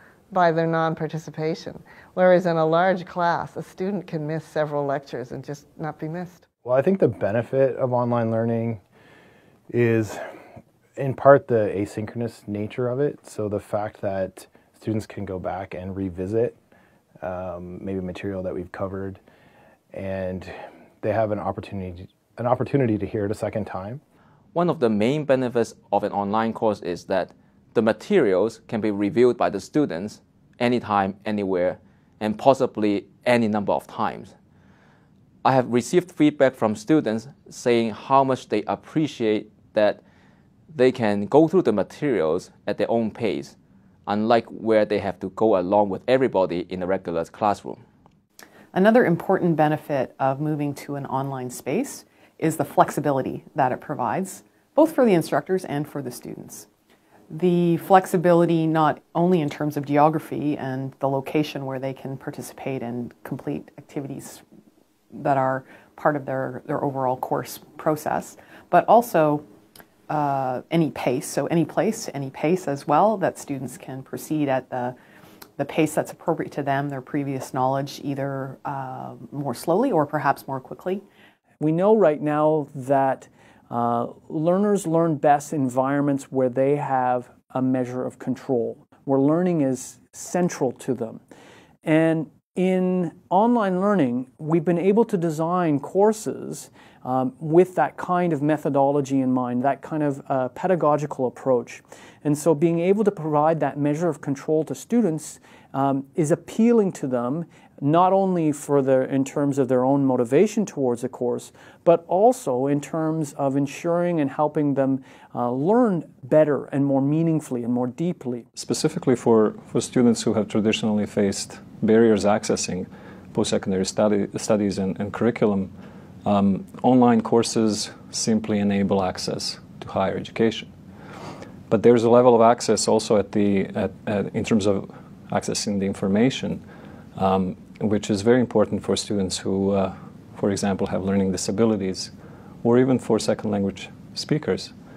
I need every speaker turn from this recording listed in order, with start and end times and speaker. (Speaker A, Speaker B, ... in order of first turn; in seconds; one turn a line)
Speaker A: 0.3-6.4
Speaker B: 6.6-8.8
Speaker B: 9.7-10.3
Speaker B: 10.9-16.6
Speaker B: 17.2-19.2
Speaker B: 19.9-24.0
Speaker C: 24.5-34.3
Speaker C: 35.4-40.0
Speaker C: 40.7-43.5
Speaker C: 44.1-47.8
Speaker D: 48.7-56.7
Speaker D: 57.3-64.4
Speaker D: 65.1-69.4
Speaker D: 70.1-75.0
Speaker D: 75.6-81.0
Speaker E: 81.6-91.2
Speaker E: 91.8-118.4
Speaker F: 118.5-125.7
Speaker F: 126.2-130.7
Speaker F: 131.7-136.6
Speaker F: 137.2-142.1
Speaker F: 142.6-144.7